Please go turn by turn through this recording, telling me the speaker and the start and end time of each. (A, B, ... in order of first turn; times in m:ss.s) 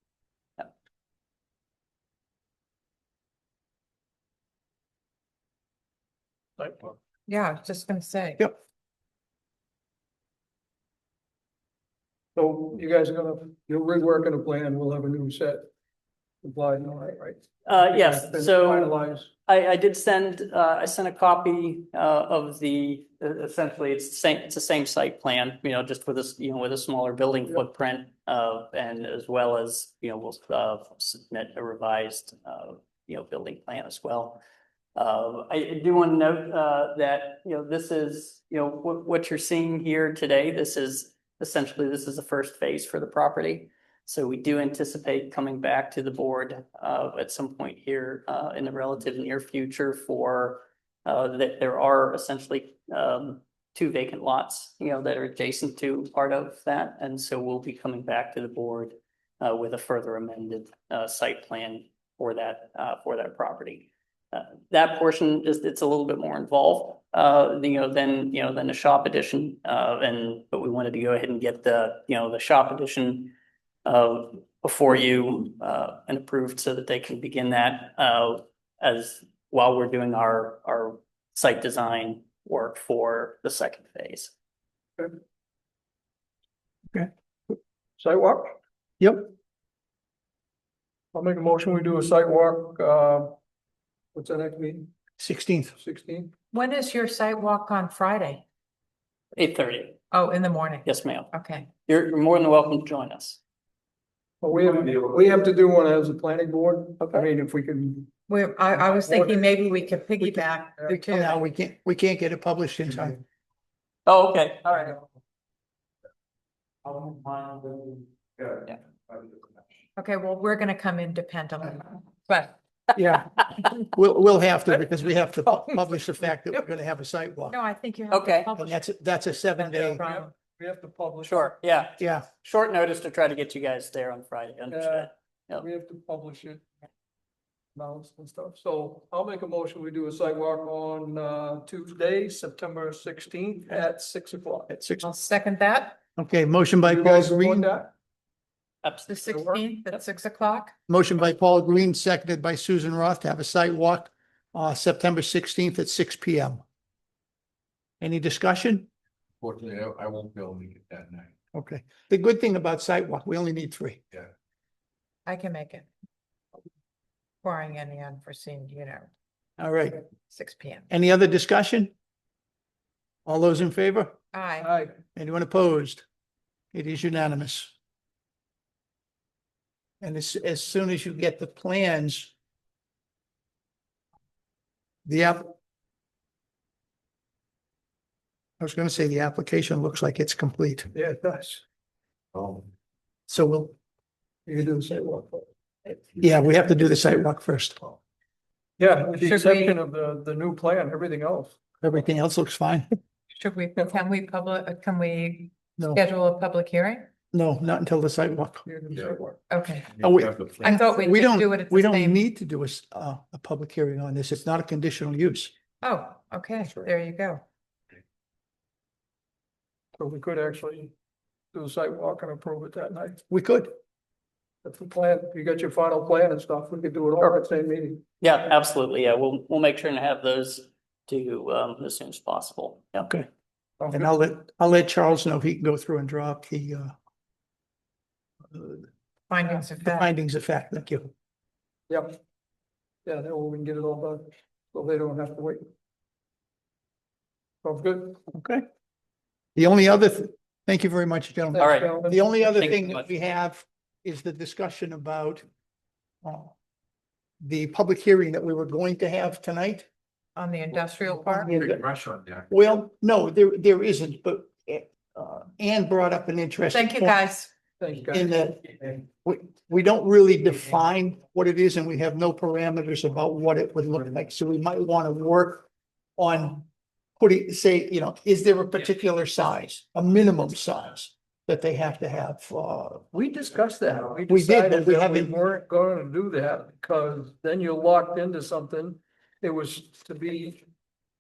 0:06.6-0:07.0 A
0:07.3-0:08.5 B
0:12.4-0:15.7 A
0:16.4-0:19.3 A
0:17.7-0:18.9 C
0:19.5-0:34.4 C
0:35.0-1:13.3 C
1:13.8-1:24.3 C
1:26.9-1:27.6 D
1:28.0-1:28.6 A
1:29.0-1:29.3 D
1:31.1-1:33.4 A
1:34.2-1:34.9 A
1:35.2-1:35.7 D
1:35.8-1:36.3 A
1:36.5-1:38.4 B
1:39.4-1:40.0 C
1:40.1-1:41.7 B
1:40.8-1:41.3 C
1:41.9-1:43.4 C
1:44.4-1:48.1 A
1:47.0-1:47.3 C
1:48.3-1:51.5 B
1:48.7-1:49.6 A
1:50.2-1:50.9 A
1:50.9-1:53.2 D
1:54.1-1:55.0 C
2:00.0-2:02.6 B
2:03.0-2:07.6 D
2:07.5-2:08.9 B
2:08.1-2:08.5 C
2:08.6-2:10.0 D
2:09.6-2:10.3 B
2:10.0-2:11.5 A
2:11.2-2:15.6 C
2:12.0-2:12.3 D
2:14.7-2:16.6 A
2:17.8-2:24.7 A
2:24.7-2:25.1 D
2:25.0-2:26.0 B
2:26.2-2:27.7 D
2:26.8-2:27.9 A
2:28.8-2:30.0 C
2:29.1-2:30.7 B
2:30.9-2:36.6 D
2:38.0-2:38.9 D
2:39.4-2:41.3 E
2:41.5-2:44.0 D
2:45.3-2:45.9 B
2:47.4-2:49.1 B
2:49.6-2:50.0 D
2:50.3-2:50.9 B
2:50.9-2:51.9 D
2:53.3-2:54.1 D
2:54.3-2:54.7 B
2:54.6-2:55.0 A
2:55.2-2:56.0 D
2:56.7-2:57.7 D
3:00.0-3:02.3 D
3:05.1-3:05.5 D
3:08.6-3:10.9 D
3:10.9-3:11.6 A
3:13.3-3:13.8 D
3:14.5-3:15.5 A
3:15.9-3:18.0 D
3:18.8-3:21.6 A
3:19.2-3:19.8 B
3:21.8-3:22.9 D
3:23.3-3:27.1 B
3:27.3-3:28.7 D
3:28.7-3:29.4 A
3:29.5-3:30.0 B
3:30.0-3:35.5 D
3:30.1-3:30.7 E
3:30.6-3:32.2 B
3:35.8-3:37.4 B
3:40.0-3:40.9 A
3:41.5-3:43.2 A
3:43.3-3:43.7 D
3:44.6-3:48.0 A
3:48.2-3:53.1 C
3:53.0-3:53.3 D
3:53.8-3:54.1 A
3:53.9-3:56.9 D
3:58.5-3:58.9 D
3:59.3-4:00.1 B
3:59.4-4:01.1 D
4:01.9-4:02.2 A
4:03.0-4:05.7 A
4:07.6-4:08.2 A
4:08.3-4:08.6 D
4:09.6-4:15.4 D
4:11.5-4:12.6 A
4:11.6-4:11.9 C
4:12.6-4:13.0 C
4:16.2-4:16.5 D
4:17.4-4:19.9 D
4:20.4-4:21.7 B
4:21.2-4:21.8 D
4:21.7-4:22.4 E
4:22.5-4:27.2 D
4:26.7-4:27.5 B
4:27.8-4:28.3 A
4:28.1-4:36.7 D
4:37.2-4:43.1 D
4:43.1-4:50.6 A
4:44.3-4:45.4 D